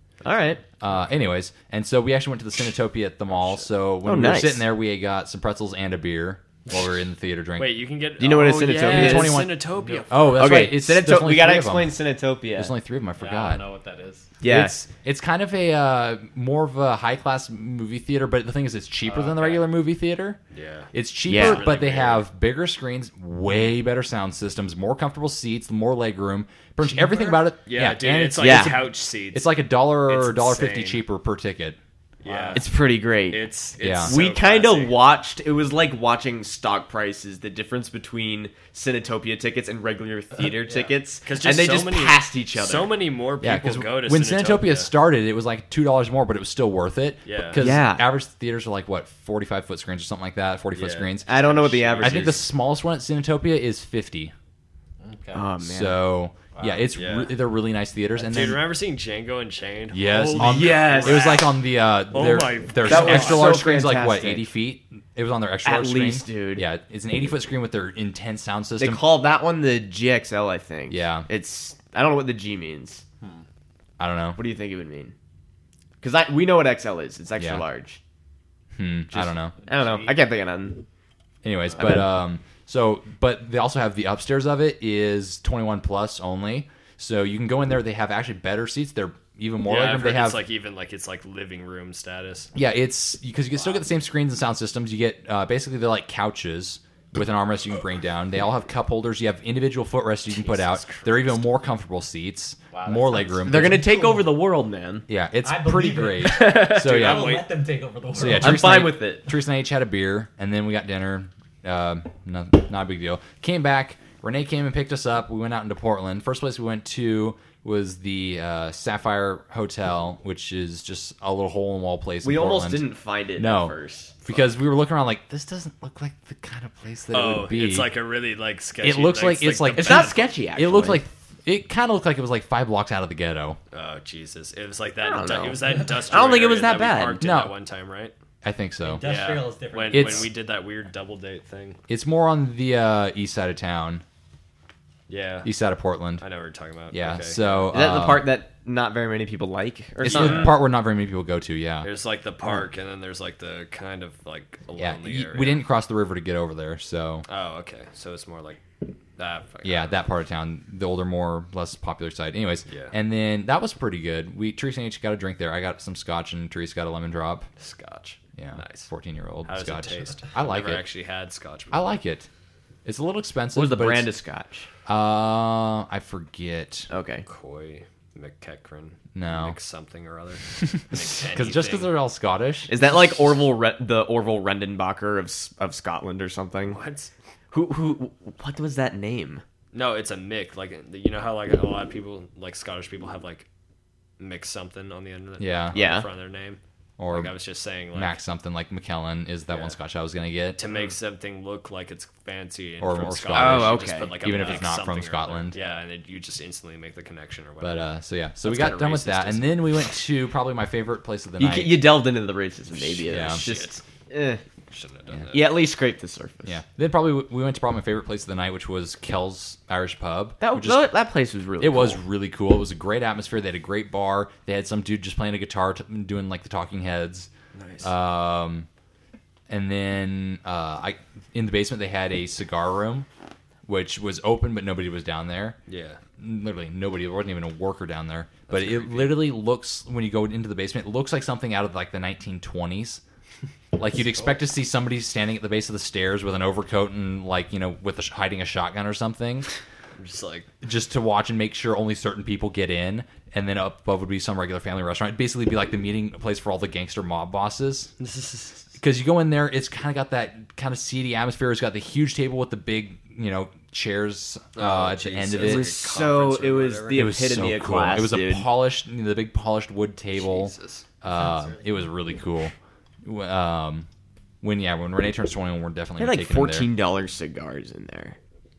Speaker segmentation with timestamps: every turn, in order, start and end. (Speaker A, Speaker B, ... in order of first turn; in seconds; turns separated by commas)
Speaker A: 0.2-0.6, Speaker B: 0.8-7.8, Speaker C: 3.3-3.6, Speaker A: 4.0-4.6, Speaker C: 7.6-10.4, Speaker A: 8.2-9.4, Speaker B: 8.8-12.0, Speaker D: 9.7-10.2, Speaker A: 10.3-12.7, Speaker B: 12.5-13.6, Speaker D: 13.2-14.4, Speaker A: 14.4-14.8, Speaker B: 14.4-20.4, Speaker D: 19.1-19.7, Speaker C: 20.5-22.2, Speaker B: 20.9-31.8, Speaker A: 21.3-21.6, Speaker D: 26.8-27.4, Speaker C: 27.6-31.0, Speaker A: 28.4-28.8, Speaker C: 32.2-35.0, Speaker D: 32.2-32.7, Speaker A: 32.5-33.5, Speaker B: 33.8-34.1, Speaker A: 34.0-43.0, Speaker D: 40.4-41.0, Speaker C: 41.2-44.9, Speaker B: 43.4-54.3, Speaker C: 47.2-47.6, Speaker A: 47.6-48.0, Speaker C: 50.7-52.4, Speaker A: 51.2-52.4, Speaker D: 55.0-55.5, Speaker A: 55.3-56.0, Speaker B: 55.6-58.6, Speaker D: 56.5-56.9, Speaker C: 56.9-57.3, Speaker C: 58.2-61.5, Speaker B: 59.9-69.0, Speaker A: 60.3-61.4, Speaker C: 62.1-63.6, Speaker A: 62.9-64.5, Speaker A: 65.6-66.7, Speaker A: 68.8-73.0, Speaker B: 70.9-71.3, Speaker B: 74.0-74.4, Speaker A: 74.4-75.1, Speaker A: 76.0-78.0, Speaker B: 77.4-77.6, Speaker B: 78.8-79.5, Speaker A: 79.1-80.8, Speaker D: 79.6-80.2, Speaker B: 81.4-90.4, Speaker A: 81.8-82.1, Speaker C: 89.6-92.5, Speaker B: 92.5-103.8, Speaker C: 100.3-101.4, Speaker D: 102.7-104.3, Speaker A: 103.5-105.1, Speaker B: 105.1-107.3, Speaker D: 105.4-108.8, Speaker C: 106.2-107.5, Speaker A: 106.3-106.9, Speaker B: 108.1-127.9, Speaker A: 108.4-109.3, Speaker A: 122.2-124.4, Speaker C: 127.1-130.2, Speaker B: 128.8-133.6, Speaker A: 129.8-131.0, Speaker C: 133.7-138.1, Speaker A: 135.0-137.2, Speaker B: 137.2-137.5, Speaker B: 138.4-139.1, Speaker D: 138.8-140.3, Speaker C: 139.0-141.8, Speaker B: 139.9-140.3, Speaker B: 141.9-144.0, Speaker C: 145.1-145.5, Speaker B: 145.4-146.2, Speaker C: 146.2-147.7, Speaker B: 146.9-148.2, Speaker A: 147.7-150.6, Speaker B: 150.0-151.9, Speaker C: 150.0-150.5, Speaker C: 151.8-155.6, Speaker B: 154.8-157.2, Speaker C: 157.3-158.6, Speaker C: 159.2-160.1, Speaker B: 159.6-167.5, Speaker C: 162.7-162.9, Speaker C: 167.6-168.9, Speaker B: 168.4-170.8, Speaker C: 169.4-171.8, Speaker B: 171.7-172.3, Speaker B: 172.8-174.1, Speaker A: 173.5-174.7, Speaker B: 174.9-176.9, Speaker A: 176.9-177.2, Speaker C: 177.2-181.9, Speaker B: 179.1-179.6, Speaker B: 181.3-182.7, Speaker A: 182.7-186.8, Speaker C: 186.7-187.1, Speaker A: 187.5-189.4, Speaker C: 189.7-193.5, Speaker C: 194.2-198.2, Speaker B: 195.4-195.8, Speaker A: 195.7-196.1, Speaker B: 197.0-197.3, Speaker B: 197.9-200.6, Speaker C: 199.5-199.7, Speaker C: 200.6-207.8, Speaker B: 202.8-205.6, Speaker A: 203.3-204.6, Speaker B: 207.6-211.8, Speaker A: 208.4-209.6, Speaker A: 211.4-214.4, Speaker B: 213.1-213.5, Speaker C: 213.1-213.8, Speaker C: 214.7-215.6, Speaker A: 215.3-216.6, Speaker B: 216.4-220.9, Speaker A: 220.4-222.0, Speaker B: 221.6-227.3, Speaker C: 227.5-227.9, Speaker B: 227.8-228.7, Speaker B: 229.5-233.1, Speaker B: 233.7-235.6, Speaker C: 235.7-236.0, Speaker B: 236.2-243.0, Speaker C: 238.5-239.3, Speaker B: 243.8-249.5, Speaker C: 244.0-244.4, Speaker C: 250.0-250.5, Speaker B: 250.6-257.9, Speaker C: 258.0-258.7, Speaker B: 258.8-265.7, Speaker C: 264.6-267.0, Speaker A: 265.4-268.5, Speaker B: 266.9-273.9, Speaker C: 270.1-270.9, Speaker D: 271.1-271.8, Speaker B: 274.4-276.7, Speaker A: 276.0-278.2